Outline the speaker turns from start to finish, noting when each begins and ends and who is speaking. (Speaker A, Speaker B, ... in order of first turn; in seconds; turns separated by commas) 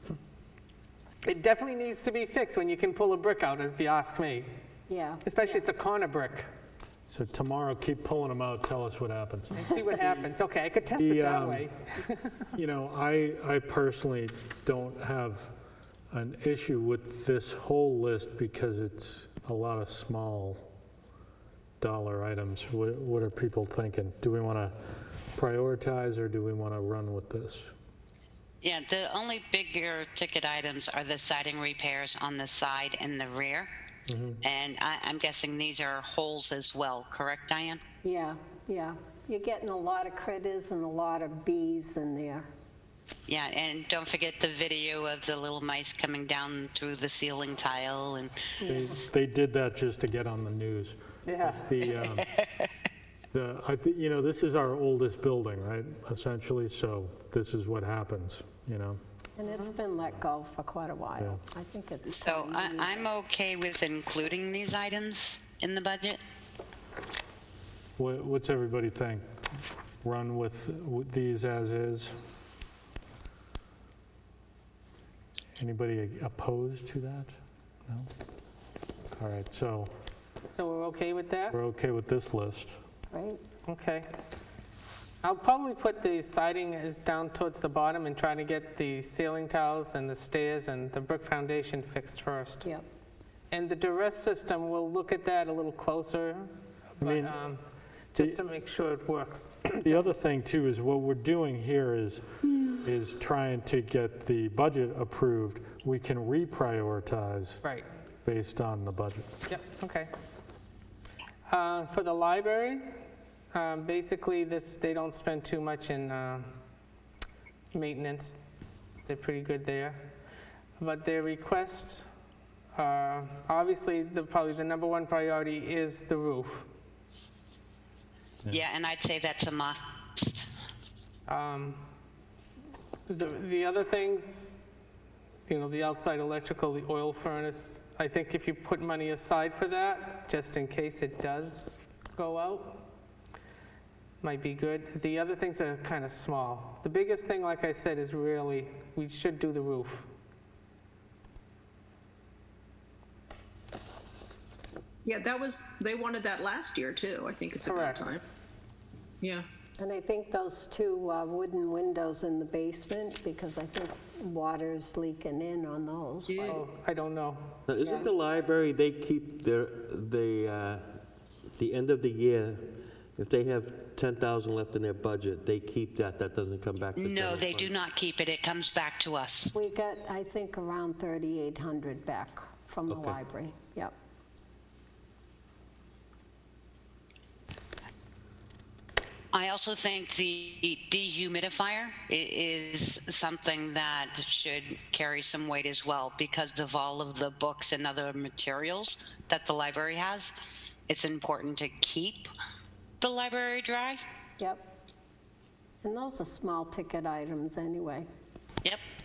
Speaker A: 1.2-4.5, Speaker B: 4.9-5.7, Speaker A: 5.2-6.5, Speaker C: 7.1-9.8, Speaker A: 9.5-12.1, Speaker C: 10.9-11.7, Speaker C: 12.5-15.5, Speaker C: 16.1-20.7, Speaker C: 21.8-24.8, Speaker C: 25.3-27.7, Speaker D: 28.6-33.7, Speaker C: 34.1-34.4, Speaker D: 34.4-37.8, Speaker B: 38.0-42.5, Speaker D: 43.3-48.3, Speaker C: 48.6-52.3, Speaker A: 51.2-51.7, Speaker C: 53.3-59.0, Speaker B: 59.4-63.1, Speaker D: 62.0-66.2, Speaker C: 68.0-69.2, Speaker C: 70.0-72.1, Speaker C: 75.6-78.1, Speaker C: 79.2-79.9, Speaker A: 80.5-81.6, Speaker C: 81.5-82.8, Speaker B: 83.1-83.4, Speaker A: 83.7-84.1, Speaker A: 85.2-92.7, Speaker A: 93.5-100.0, Speaker C: 97.0-97.4, Speaker C: 98.2-98.4, Speaker C: 99.8-107.6, Speaker C: 108.2-109.3, Speaker A: 109.5-110.1, Speaker A: 111.5-116.5, Speaker A: 117.7-118.4, Speaker A: 119.0-120.1, Speaker A: 120.8-122.1, Speaker A: 122.7-126.7, Speaker D: 128.5-130.5, Speaker A: 131.3-131.8, Speaker A: 133.1-134.6, Speaker A: 135.5-142.8, Speaker A: 144.2-150.1, Speaker E: 155.0-158.2, Speaker A: 157.6-158.1, Speaker B: 159.8-166.6, Speaker E: 166.3-166.6, Speaker A: 166.4-167.6, Speaker F: 167.7-170.8, Speaker B: 167.8-168.1, Speaker F: 171.6-177.7, Speaker D: 176.9-179.5, Speaker B: 179.5-183.9, Speaker F: 182.9-183.2, Speaker D: 189.3-200.3, Speaker D: 200.9-202.3, Speaker D: 203.0-204.0, Speaker B: 204.4-204.6, Speaker B: 205.8-208.1